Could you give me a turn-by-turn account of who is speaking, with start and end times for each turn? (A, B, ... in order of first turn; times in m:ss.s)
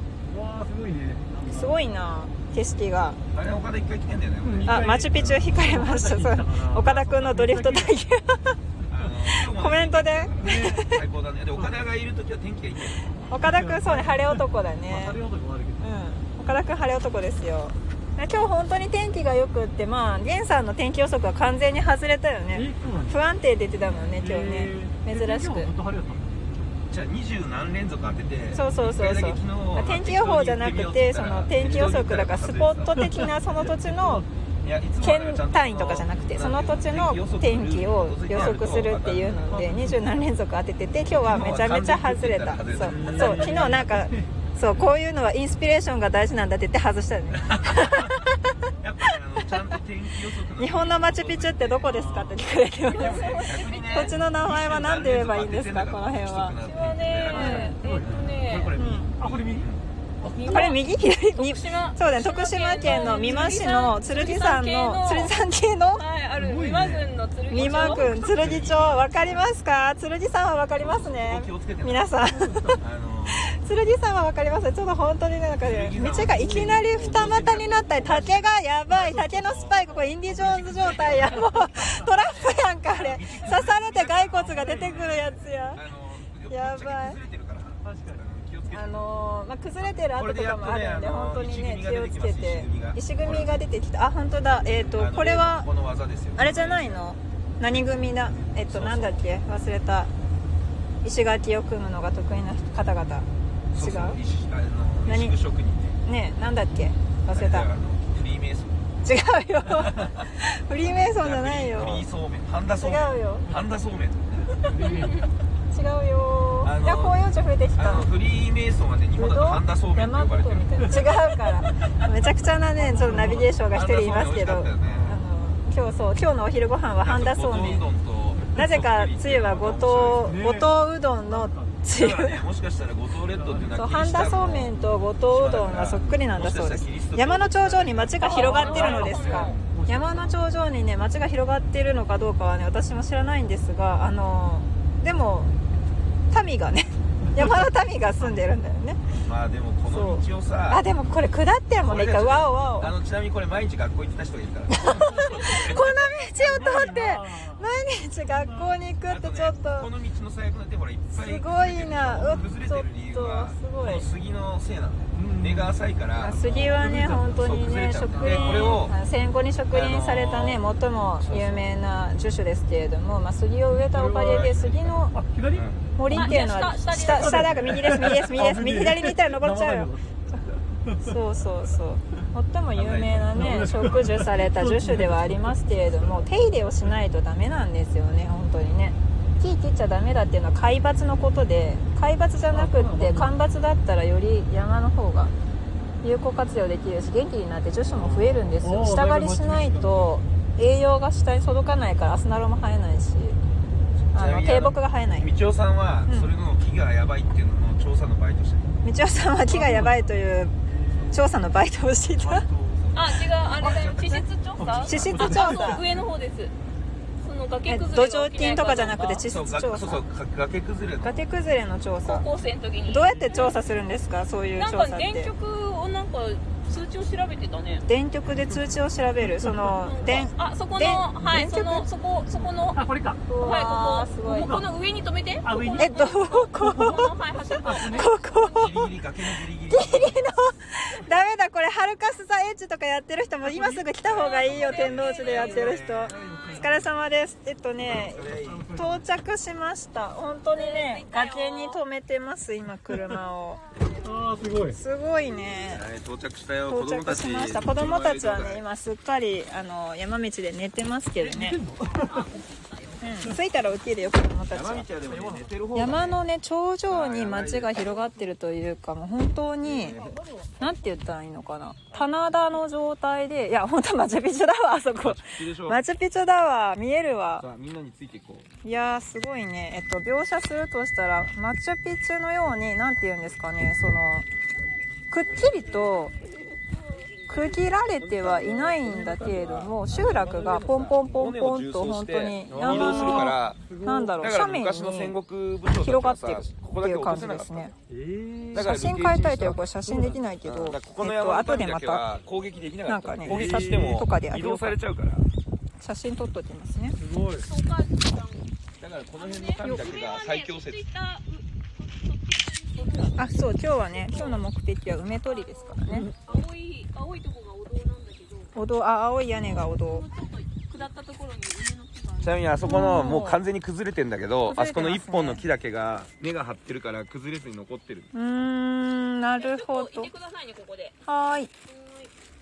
0:00.2-0:01.8 A
0:01.4-0:03.2 B
0:03.3-0:05.5 C
0:04.4-0:08.0 A
0:04.6-0:08.6 B
0:08.9-0:13.2 C
0:09.3-0:11.0 B
0:10.4-0:10.8 A
0:13.3-0:15.2 B
0:13.4-0:15.9 A
0:15.8-0:25.7 B
0:22.5-0:23.2 A
0:24.1-0:26.7 A
0:26.9-0:33.1 C
0:28.5-0:34.2 B
0:31.6-0:32.0 A
0:33.0-0:34.3 A
0:34.6-0:39.7 C
0:35.0-0:48.5 B
0:39.5-0:40.0 A
0:41.2-0:43.8 C
0:42.8-0:44.3 A
0:47.3-0:48.2 C
0:48.8-0:52.0 C
0:50.6-0:56.5 B
0:51.8-0:52.4 A
0:52.8-0:54.1 D
0:52.9-0:59.8 C
0:56.6-0:58.7 D
0:57.3-0:57.8 B
0:57.5-0:59.7 A
0:58.8-0:59.1 B
1:00.2-1:00.8 A
1:00.2-1:00.8 D
1:00.5-1:06.0 B
1:01.3-1:05.3 D
1:02.8-1:03.6 A
1:05.9-1:08.1 D
1:06.4-1:07.1 A
1:07.5-1:12.7 B
1:07.5-1:09.4 C
1:08.4-1:08.7 A
1:10.8-1:12.1 C
1:12.2-1:12.8 A
1:12.8-1:13.5 C
1:13.3-1:25.8 B
1:15.6-1:29.1 C
1:16.0-1:18.2 A
1:20.4-1:22.0 A
1:24.4-1:25.5 A
1:26.5-1:27.2 B
1:27.8-1:28.2 A
1:28.7-1:35.6 B
1:29.8-1:33.6 C
1:34.4-1:37.0 C
1:36.4-1:40.1 B
1:38.3-1:39.2 C
1:41.0-1:44.2 B
1:43.7-1:46.0 C
1:45.0-1:45.3 B
1:46.0-1:47.7 B
1:47.3-1:48.7 C
1:49.0-1:52.1 B
1:49.7-1:50.2 C
1:51.0-1:54.6 C
1:52.7-1:53.5 B
1:54.5-1:55.2 A
1:54.8-1:55.2 D
1:55.7-1:58.0 B
1:56.6-1:57.2 C
1:57.8-2:01.1 C
1:59.2-2:07.8 B
2:02.8-2:03.5 A
2:03.7-2:05.2 C
2:04.8-2:05.2 A
2:07.0-2:10.3 C
2:08.5-2:12.4 B
2:10.2-2:10.7 A
2:11.2-2:11.8 A
2:11.9-2:14.8 C
2:13.3-2:13.9 A
2:13.7-2:25.5 B
2:15.3-2:19.4 C
2:18.2-2:19.6 D
2:18.6-2:20.4 A
2:26.3-2:29.0 B
2:29.2-2:30.8 C
2:29.8-2:32.9 B
2:31.8-2:35.9 C
2:34.9-2:39.9 B
2:35.1-2:35.8 A
2:36.3-2:37.7 A
2:38.2-2:38.8 A
2:39.1-2:48.9 C
2:41.1-2:44.0 B
2:45.1-2:45.7 A
2:46.2-2:55.1 B
2:46.5-2:47.5 A
2:48.1-2:48.8 A
2:49.7-2:50.6 C
2:51.2-2:51.7 C
2:53.7-2:54.6 A
2:54.2-2:55.0 C
2:55.1-3:01.1 A
2:55.5-2:55.9 C
2:56.0-2:59.9 B
2:56.1-2:57.6 D
3:01.0-3:15.3 B
3:02.7-3:04.0 C
3:03.3-3:05.6 A
3:12.5-3:13.3 A
3:16.0-3:23.4 B
3:17.8-3:20.2 A
3:23.9-3:28.7 C
3:24.1-3:25.3 B
3:28.8-3:30.6 B
3:29.5-3:30.0 A
3:30.7-3:31.3 A
3:31.1-3:32.4 B
3:32.2-3:33.0 A
3:32.8-3:33.0 C
3:32.9-3:36.5 D
3:33.6-3:34.3 C
3:34.6-3:35.8 A
3:34.8-3:35.9 B
3:34.9-3:35.2 C
3:37.2-3:39.2 D
3:37.7-3:40.0 B
3:39.2-3:41.2 C
3:41.0-3:42.2 B
3:42.0-3:43.5 D
3:42.9-3:45.3 B
3:44.6-3:47.8 D
3:47.9-3:51.8 B
3:48.2-3:48.6 A
3:49.6-3:52.8 D
3:52.7-3:53.3 A
3:53.3-3:54.6 B
3:53.4-3:58.8 D
3:54.3-3:54.6 A
3:55.4-3:58.1 A
3:55.8-3:57.1 B
3:57.8-4:13.6 B
3:58.5-4:00.3 C
4:03.4-4:04.8 A
4:04.0-4:06.6 D
4:04.4-4:06.3 C
4:05.4-4:06.9 A
4:07.8-4:08.7 C
4:08.3-4:09.1 A
4:10.5-4:11.8 D
4:14.0-4:14.8 A
4:14.7-4:15.8 B
4:15.6-4:18.6 C
4:16.7-4:21.6 B
4:21.2-4:22.3 A
4:21.9-4:23.0 D
4:23.0-4:24.9 B
4:24.5-4:26.2 C
4:25.1-4:25.5 A
4:25.7-4:30.0 B
4:26.9-4:27.9 C
4:29.6-4:30.2 C
4:29.9-4:30.6 A
4:30.6-4:37.4 B
4:35.0-4:35.8 C
4:37.4-4:38.5 C
4:38.6-4:44.2 B
4:45.1-4:46.1 B
4:47.3-4:55.2 B
4:47.3-4:53.6 C
4:52.5-4:54.2 A
4:54.2-4:57.7 C
4:55.7-4:57.7 B
4:57.9-4:58.7 A
4:58.5-4:59.6 C
4:58.5-5:02.0 B
4:59.8-5:00.2 A
5:00.4-5:05.3 C
5:02.8-5:04.8 B
5:03.2-5:03.9 A
5:05.8-5:07.0 B
5:07.0-5:07.5 A
5:07.4-5:08.5 D
5:08.8-5:10.8 C
5:09.2-5:14.4 D
5:13.2-5:16.1 B
5:15.2-5:18.5 D
5:18.5-5:20.0 B
5:19.5-5:22.5 D
5:22.2-5:28.1 C
5:22.6-5:23.4 B
5:24.5-5:25.4 B
5:28.1-5:30.1 B
5:29.4-5:31.0 D
5:31.0-5:31.5 B
5:31.7-5:32.1 D